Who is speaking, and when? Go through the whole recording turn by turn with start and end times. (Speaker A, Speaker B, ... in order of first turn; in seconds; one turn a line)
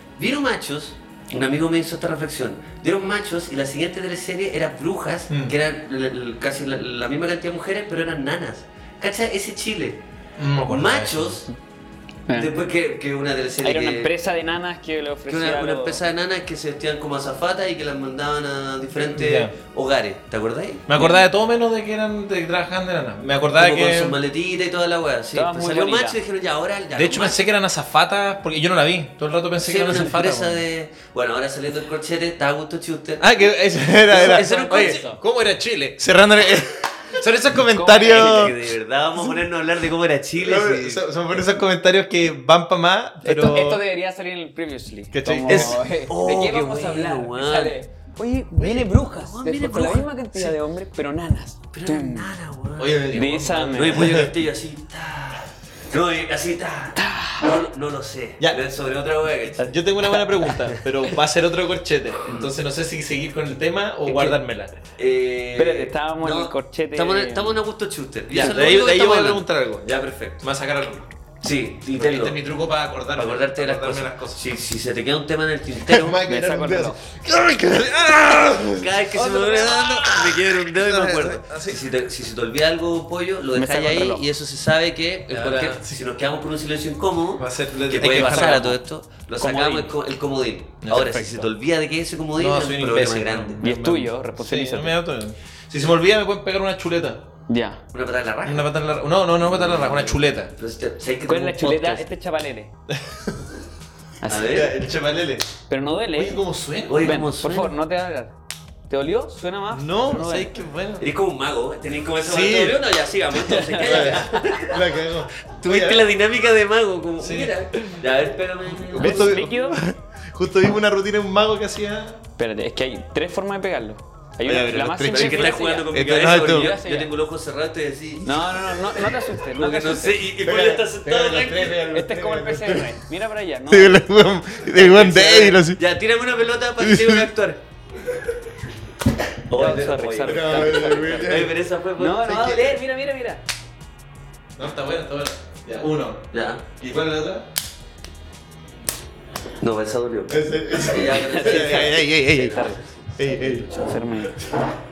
Speaker A: 0.2-10.0
Speaker B: 10.4-11.4
Speaker A: 10.6-11.5
Speaker C: 12.3-12.6
Speaker A: 12.3-14.1
Speaker C: 13.6-16.0
Speaker A: 15.3-20.9
Speaker B: 19.1-19.5
Speaker B: 20.9-24.2
Speaker C: 20.9-21.2
Speaker A: 23.6-27.4
Speaker C: 25.3-26.2
Speaker B: 26.9-30.6
Speaker A: 29.6-33.5
Speaker B: 33.2-38.6
Speaker A: 34.1-35.1
Speaker C: 34.1-35.2
Speaker C: 37.7-38.5
Speaker A: 38.1-41.1
Speaker B: 40.4-43.8
Speaker C: 43.2-52.3
Speaker B: 45.1-45.8
Speaker A: 45.5-47.8
Speaker A: 48.6-50.5
Speaker A: 51.7-53.1
Speaker B: 52.8-54.3
Speaker C: 53.1-54.2
Speaker A: 53.7-59.7
Speaker C: 57.0-57.5
Speaker B: 59.5-64.7
Speaker C: 60.1-60.5
Speaker A: 62.3-62.5
Speaker A: 64.1-64.3
Speaker A: 65.0-70.4
Speaker C: 65.6-67.6
Speaker B: 68.3-71.1
Speaker A: 71.4-72.4
Speaker B: 71.9-74.5
Speaker A: 73.2-76.2
Speaker B: 75.9-81.8
Speaker C: 76.2-77.0
Speaker A: 78.7-93.6
Speaker C: 83.5-84.3
Speaker B: 85.3-86.0
Speaker B: 87.4-88.8
Speaker C: 88.0-88.8
Speaker C: 89.4-89.9
Speaker B: 90.8-91.5
Speaker B: 92.4-97.2
Speaker C: 93.6-95.0
Speaker C: 97.5-97.8
Speaker A: 97.9-98.7
Speaker B: 98.4-100.5
Speaker A: 99.5-102.1
Speaker C: 101.3-102.7
Speaker B: 102.9-103.5
Speaker C: 104.2-104.7
Speaker A: 104.3-104.7
Speaker B: 104.5-105.5
Speaker C: 105.7-106.4
Speaker B: 106.1-107.2
Speaker A: 106.9-107.7
Speaker C: 107.0-108.3
Speaker C: 108.9-110.5
Speaker B: 109.7-111.1
Speaker A: 111.0-119.4
Speaker B: 112.2-112.9
Speaker C: 113.4-114.4
Speaker B: 113.8-116.0
Speaker B: 117.2-117.5
Speaker B: 118.7-122.2
Speaker C: 118.9-119.8
Speaker C: 122.4-127.1
Speaker B: 124.4-126.8
Speaker A: 125.1-131.8
Speaker C: 128.2-130.3
Speaker B: 130.4-133.0
Speaker C: 131.8-134.2
Speaker B: 133.7-135.8
Speaker A: 134.7-137.6
Speaker B: 136.8-137.3
Speaker A: 139.4-142.8
Speaker C: 139.5-143.4
Speaker B: 140.2-141.6
Speaker B: 144.6-147.5
Speaker A: 146.3-146.6
Speaker A: 149.6-153.9
Speaker B: 150.3-153.7
Speaker C: 151.1-152.8
Speaker C: 153.3-154.5